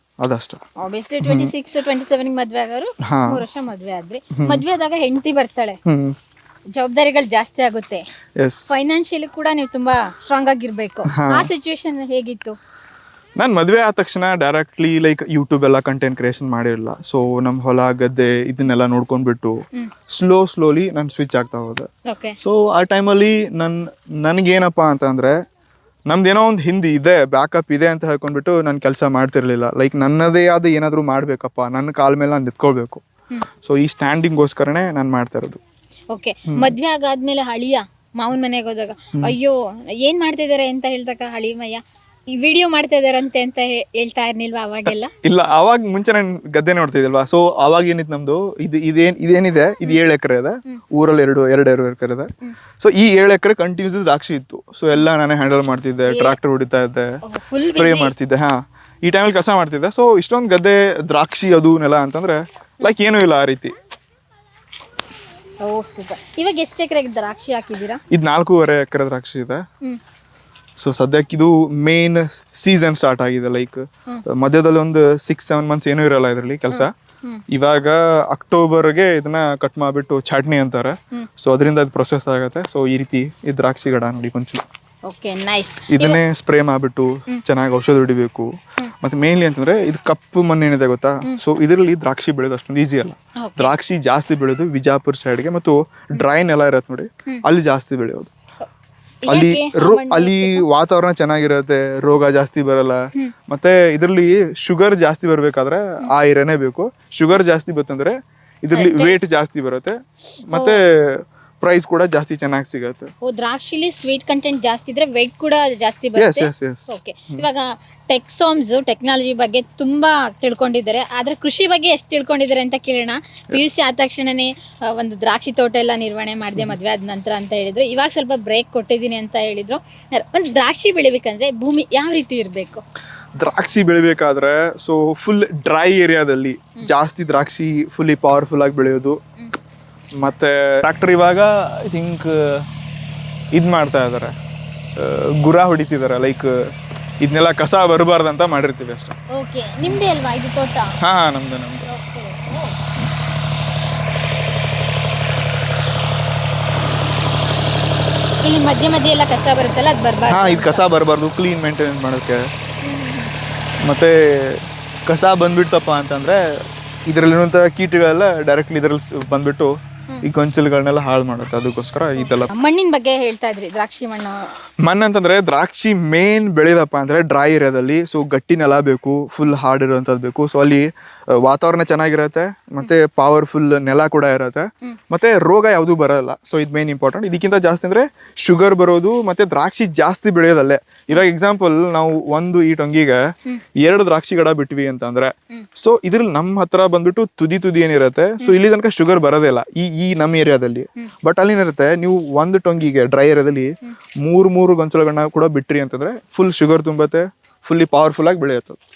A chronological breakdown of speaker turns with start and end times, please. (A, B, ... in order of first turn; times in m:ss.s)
0:00.2-0:00.6 A
0:00.8-0:05.8 B
0:01.2-0:01.5 A
0:03.0-0:03.4 A
0:04.3-0:04.6 A
0:05.9-0:06.2 A
0:06.8-0:08.0 B
0:08.4-0:08.7 A
0:08.7-0:12.6 B
0:11.1-0:11.5 A
0:13.4-0:19.5 A
0:20.1-0:21.9 A
0:22.1-0:22.4 B
0:22.4-0:25.3 A
0:26.1-0:33.0 A
0:33.6-0:35.6 A
0:36.1-0:41.8 B
0:36.5-0:36.7 A
0:42.4-0:45.1 B
0:45.2-0:52.3 A
0:52.8-0:57.1 A
0:56.1-0:56.4 B
0:57.3-0:58.1 B
0:57.6-1:03.7 A
1:05.6-1:08.0 B
1:08.1-1:09.6 A
1:10.8-1:16.9 A
1:16.7-1:17.4 B
1:17.5-1:24.6 A
1:25.1-1:26.2 B
1:25.9-1:38.3 A
1:33.4-1:33.7 B
1:39.3-1:40.7 B
1:39.3-1:53.1 A
1:48.7-1:49.3 B
1:50.5-1:50.8 B
1:53.2-2:12.8 B
1:56.2-1:57.5 A
2:13.4-2:19.2 A
2:20.2-2:22.7 A
2:23.5-2:24.3 A
2:25.0-2:26.5 A
2:27.2-2:29.2 A
2:29.4-2:31.0 B
2:31.0-2:31.9 A
2:31.8-2:32.8 B
2:38.4-2:40.9 B
2:40.3-2:42.5 A
2:42.8-2:43.3 B
2:43.8-2:46.4 A
2:47.1-2:52.5 A
2:52.2-2:54.5 B
2:54.8-3:13.2 A
3:13.8-3:28.8 A